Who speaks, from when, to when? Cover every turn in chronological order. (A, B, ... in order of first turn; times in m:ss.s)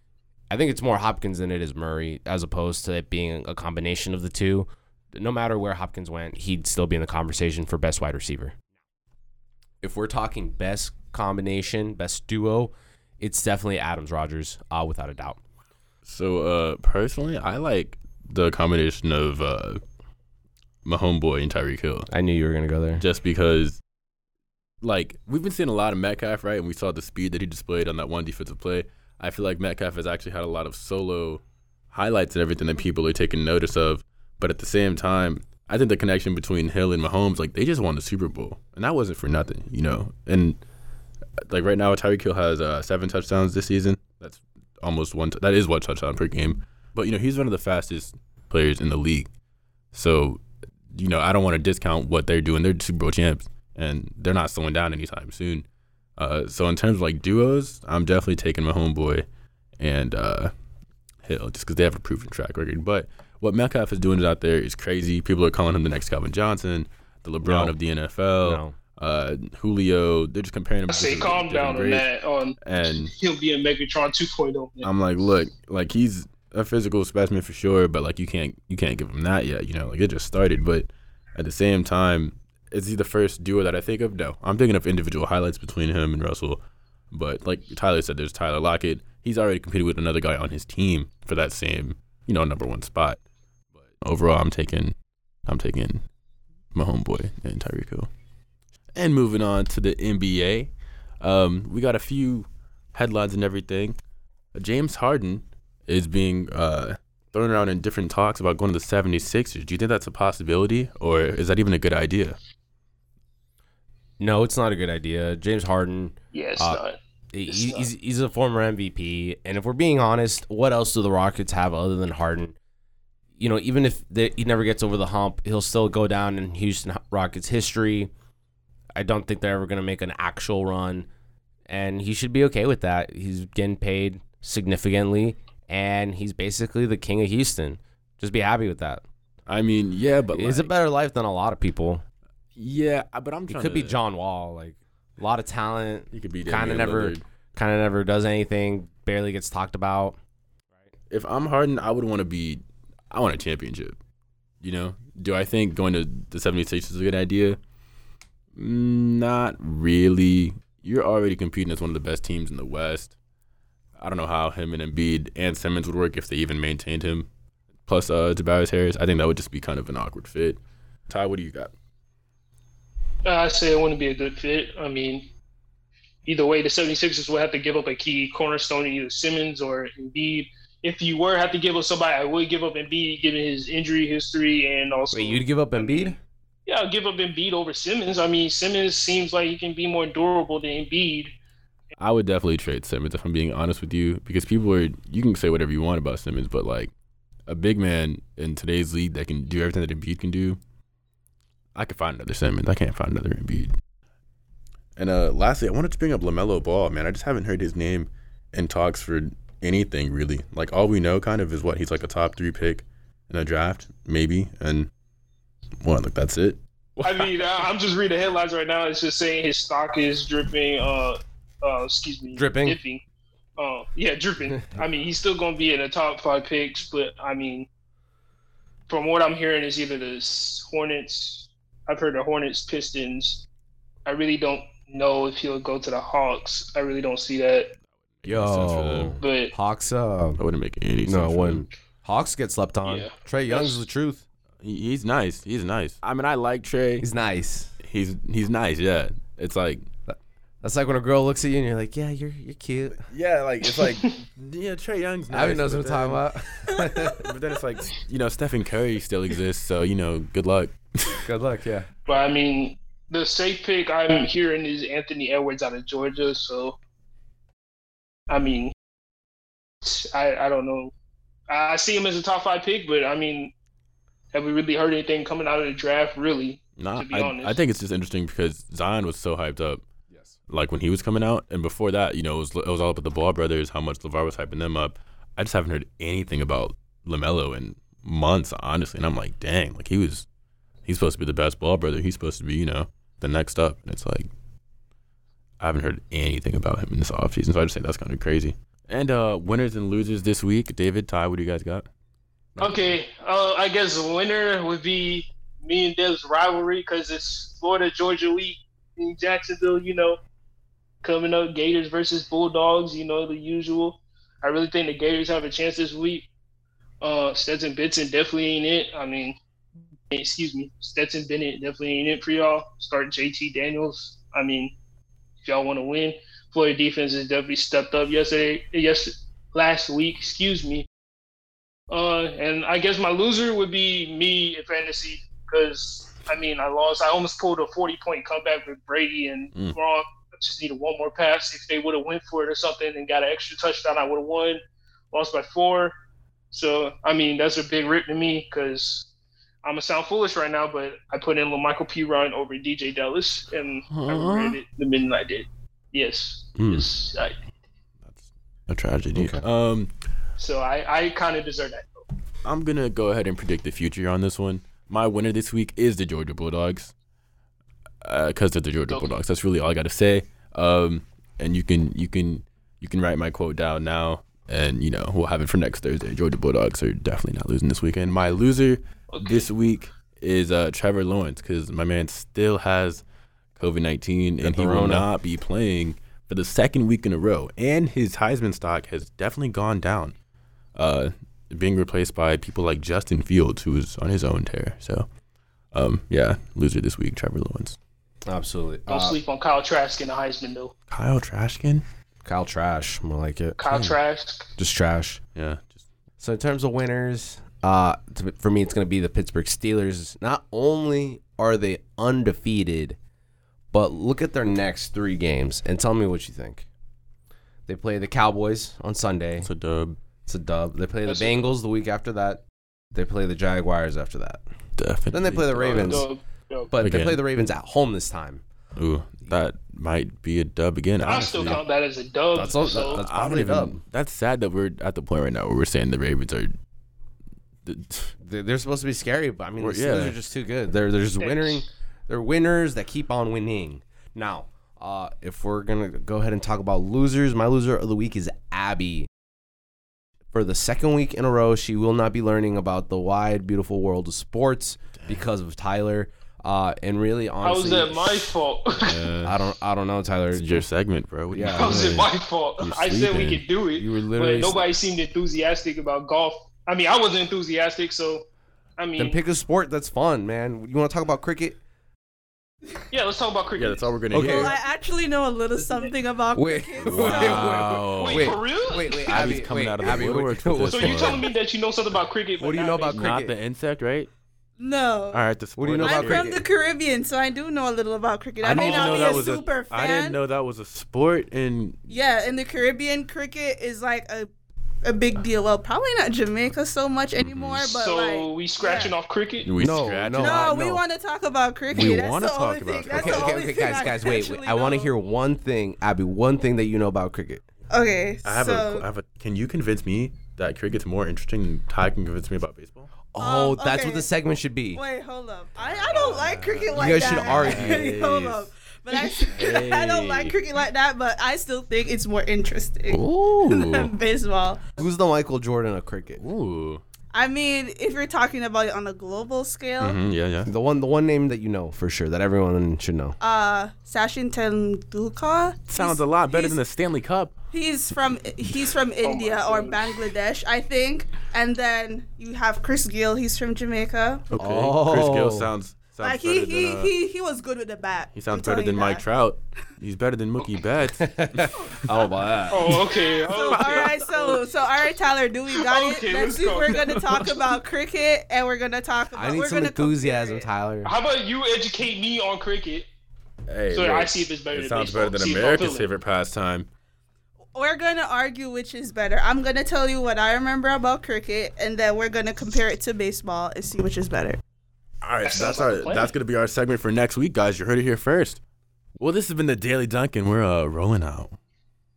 0:00.5-0:08.6 A
0:09.8-0:15.4 A
0:16.0-0:19.8 B
0:20.8-0:22.1 B
0:22.1-0:23.0 A
0:23.0-0:23.8 B
0:24.8-0:40.6 B
0:41.5-0:49.3 B
0:49.9-0:55.7 B
0:56.2-0:59.2 B
0:59.8-1:00.5 B
1:01.2-1:12.1 B
1:07.4-1:07.8 A
1:08.4-1:08.8 A
1:10.9-1:14.9 C
1:12.6-1:13.1 B
1:14.8-1:33.2 B
1:33.7-1:35.0 B
1:35.5-1:36.0 B
1:36.8-1:38.1 B
1:39.0-1:44.0 B
1:44.6-1:52.4 B
1:54.2-2:02.6 A
1:56.3-1:57.9 C
2:03.4-2:08.1 A
2:09.0-2:11.1 A
2:11.7-2:19.0 A
2:19.5-2:20.7 B
2:20.3-2:22.0 A
2:22.6-2:24.0 B
2:23.5-2:30.2 A
2:26.1-2:27.2 B
2:31.1-2:34.0 B
2:34.6-2:37.6 B
2:38.6-2:43.2 B
2:44.0-2:47.3 B
2:47.8-2:51.7 B
2:53.2-2:55.3 C
2:56.2-3:11.3 C
3:05.1-3:06.2 A
3:12.0-3:16.9 B
3:17.5-3:20.6 B
3:21.8-3:23.8 B
3:25.0-3:34.9 B
3:35.8-3:37.3 B
3:37.0-3:43.0 C
3:42.3-3:42.8 A
3:43.6-3:47.7 C
3:48.9-3:53.5 C
3:54.1-3:57.7 C
3:58.2-3:59.2 B
3:58.3-4:00.4 A
3:59.2-3:59.5 C
4:00.4-4:01.6 B
4:01.0-4:04.2 A
4:02.8-4:03.8 C
4:04.6-4:07.1 B
4:07.0-4:07.8 A
4:07.8-4:09.9 B
4:10.1-4:13.0 A
4:13.0-4:21.3 B
4:15.3-4:17.3 A
4:21.2-4:21.9 A
4:22.1-4:26.8 C
4:28.3-4:28.7 C
4:29.8-4:30.9 C
4:31.5-4:33.5 C
4:34.3-4:37.6 C
4:36.8-4:39.8 B
4:40.1-4:40.4 A
4:40.5-4:50.3 B
4:50.8-4:54.3 B
4:55.6-5:01.9 B
5:02.6-5:02.9 B
5:02.6-5:10.2 C
5:11.0-5:16.3 C
5:17.0-5:19.4 C
5:20.1-5:24.8 C
5:25.4-5:30.9 C
5:31.9-5:44.6 C
5:45.1-5:45.9 C
5:46.5-5:49.1 C
5:49.6-5:57.4 C
5:53.9-5:54.6 B
5:56.6-5:56.8 A
5:58.0-5:59.9 B
5:59.2-5:59.4 A
6:00.4-6:02.1 C
6:02.4-6:06.9 B
6:08.0-6:23.0 B
6:19.1-6:19.5 C
6:23.6-6:30.2 B
6:24.4-6:25.1 A
6:30.8-6:35.1 B
6:35.7-6:37.8 B
6:38.3-6:39.2 A
6:38.9-6:40.7 C
6:40.9-6:41.8 B
6:42.2-6:43.6 A
6:43.6-6:44.5 C
6:43.7-6:44.0 B
6:44.6-6:45.2 A
6:45.4-6:45.8 B
6:46.2-6:53.0 A
6:53.7-6:56.7 A
6:57.7-6:59.5 A
6:59.4-7:00.0 B
7:00.3-7:02.4 A
7:01.0-7:01.5 C
7:02.9-7:04.4 A
7:04.8-7:06.1 B
7:05.1-7:06.1 A
7:05.8-7:06.7 C
7:06.7-7:08.4 A
7:06.8-7:07.2 B
7:08.8-7:11.6 B
7:11.0-7:13.0 C
7:12.3-7:13.8 A
7:12.9-7:16.6 B
7:17.7-7:18.1 B
7:18.2-7:29.1 A
7:19.6-7:20.2 B
7:21.2-7:21.6 C
7:30.3-7:38.4 A
7:35.0-7:35.3 B
7:37.4-7:39.1 C
7:38.8-7:39.3 B
7:39.2-7:40.6 A
7:40.3-7:43.4 B
7:41.3-7:42.0 A
7:41.5-7:48.3 C
7:43.8-7:44.6 A
7:48.8-7:49.2 C
7:49.0-7:51.6 A
7:52.9-7:54.5 C
7:53.6-7:54.6 B
7:54.1-7:54.5 A
7:54.2-7:57.7 D
7:55.6-7:55.9 C
7:56.4-8:01.2 A
7:56.8-8:01.3 B
7:57.9-7:59.4 C
8:00.7-8:03.1 C
8:02.4-8:03.4 A
8:02.9-8:04.1 B
8:04.6-8:05.2 D
8:05.1-8:06.4 B
8:05.6-8:06.4 A
8:05.8-8:10.2 D
8:08.4-8:11.8 B
8:08.5-8:09.3 C
8:11.9-8:14.3 D
8:14.8-8:18.9 D
8:17.2-8:17.8 B
8:17.8-8:19.5 C
8:19.4-8:20.5 B
8:19.6-8:20.8 A
8:20.1-8:24.9 D
8:21.7-8:23.4 B
8:22.9-8:27.4 A
8:23.0-8:23.5 C
8:27.7-8:28.9 D
8:28.2-8:32.9 B
8:33.1-8:34.8 A
8:33.2-8:34.1 D
8:34.7-8:44.7 D
8:35.8-8:40.4 B
8:36.7-8:38.1 A
8:42.9-8:43.9 B
8:44.8-8:46.2 A
8:46.2-8:46.8 B
8:47.1-8:50.0 D
8:49.8-8:50.5 B
8:50.5-8:53.2 A
8:53.2-8:56.6 D
8:55.7-8:57.3 B
8:57.5-9:04.3 D
8:59.0-8:59.9 C
9:04.3-9:07.0 B
9:04.4-9:05.5 A
9:06.0-9:09.0 D
9:08.1-9:11.6 B
9:11.0-9:12.8 A
9:12.5-9:14.4 C
9:12.8-9:20.5 D
9:13.5-9:14.4 B
9:15.5-9:17.4 C
9:19.1-9:20.9 A
9:20.8-9:22.9 C
9:23.5-9:26.7 B
9:23.7-9:25.9 C
9:27.5-9:34.4 D
9:35.0-9:38.4 B
9:35.2-9:36.1 C
9:39.0-9:41.4 B